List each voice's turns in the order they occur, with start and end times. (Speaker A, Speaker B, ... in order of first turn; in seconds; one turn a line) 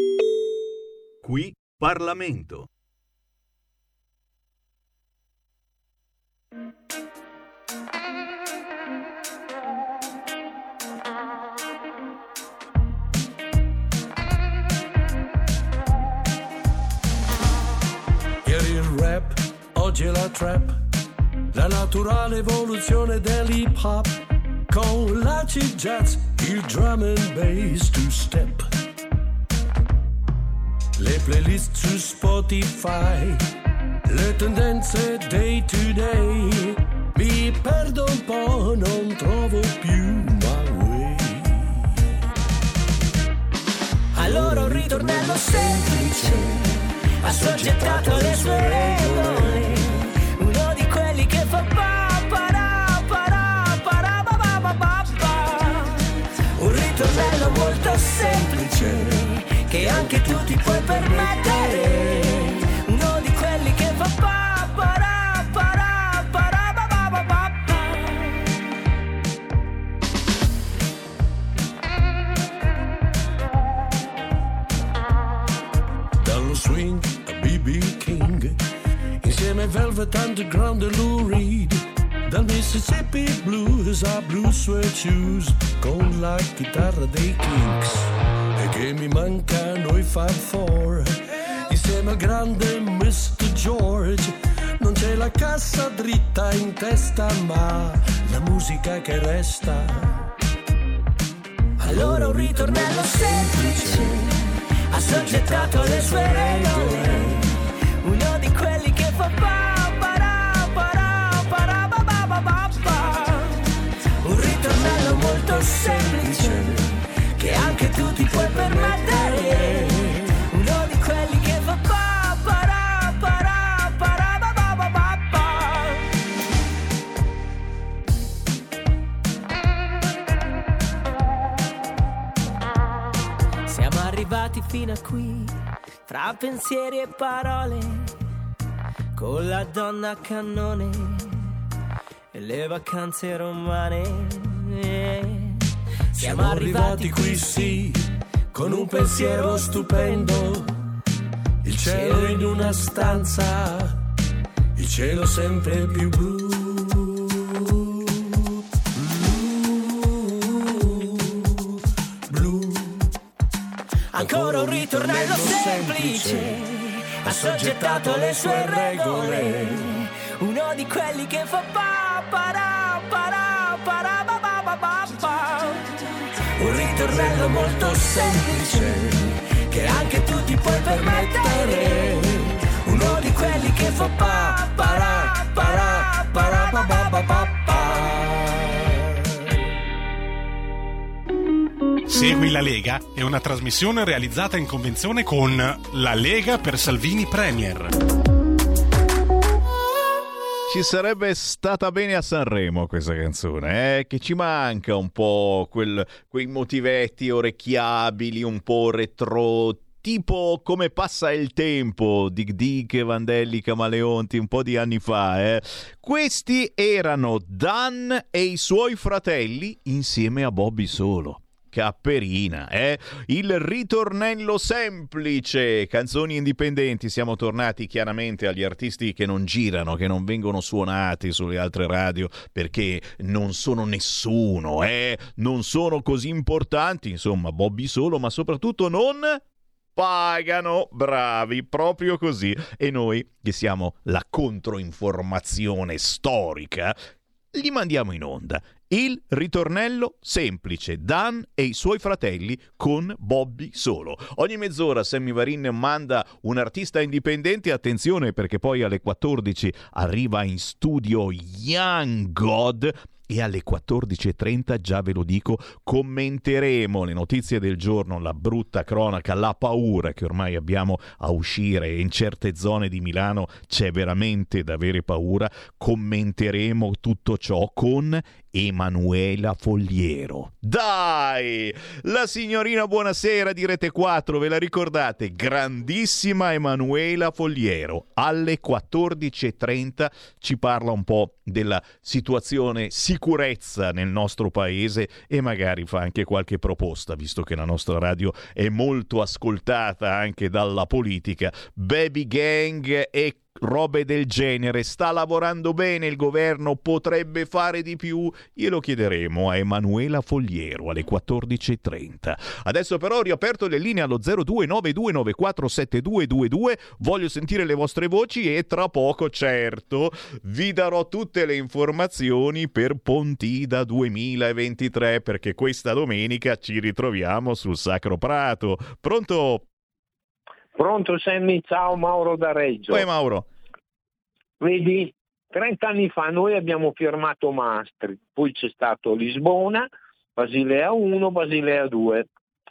Speaker A: 1.2-2.7
Speaker B: 18.4-20.8
Speaker B: 21.5-28.7
Speaker B: 30.9-33.5
Speaker B: 34.0-42.1
Speaker B: 44.1-46.6
Speaker C: 44.1-46.5
Speaker C: 47.2-56.0
Speaker B: 47.2-49.9
Speaker C: 56.6-58.9
Speaker B: 56.6-62.6
Speaker C: 59.5-68.4
Speaker B: 76.2-78.6
Speaker B: 79.2-100.2
Speaker B: 101.8-104.3
Speaker C: 101.8-104.1
Speaker C: 104.9-113.7
Speaker B: 104.9-107.4
Speaker C: 114.2-116.7
Speaker B: 114.4-120.3
Speaker C: 117.4-126.1
Speaker C: 133.7-138.1
Speaker C: 139.2-141.3
Speaker C: 142.3-145.6
Speaker C: 146.2-147.7
Speaker B: 146.2-150.7
Speaker C: 149.0-149.9
Speaker B: 151.6-154.0
Speaker C: 151.8-152.5
Speaker B: 154.8-161.7
Speaker B: 162.3-163.1
Speaker C: 164.1-176.0
Speaker B: 164.1-166.6
Speaker B: 167.2-169.9
Speaker C: 176.6-179.0
Speaker B: 176.7-188.9
Speaker C: 179.7-182.2
Speaker C: 182.8-187.9
Speaker D: 192.1-197.9
Speaker A: 200.7-239.4
Speaker A: 239.9-247.0
Speaker A: 247.5-329.6
Speaker E: 330.7-333.1
Speaker A: 332.9-333.5
Speaker E: 334.6-342.3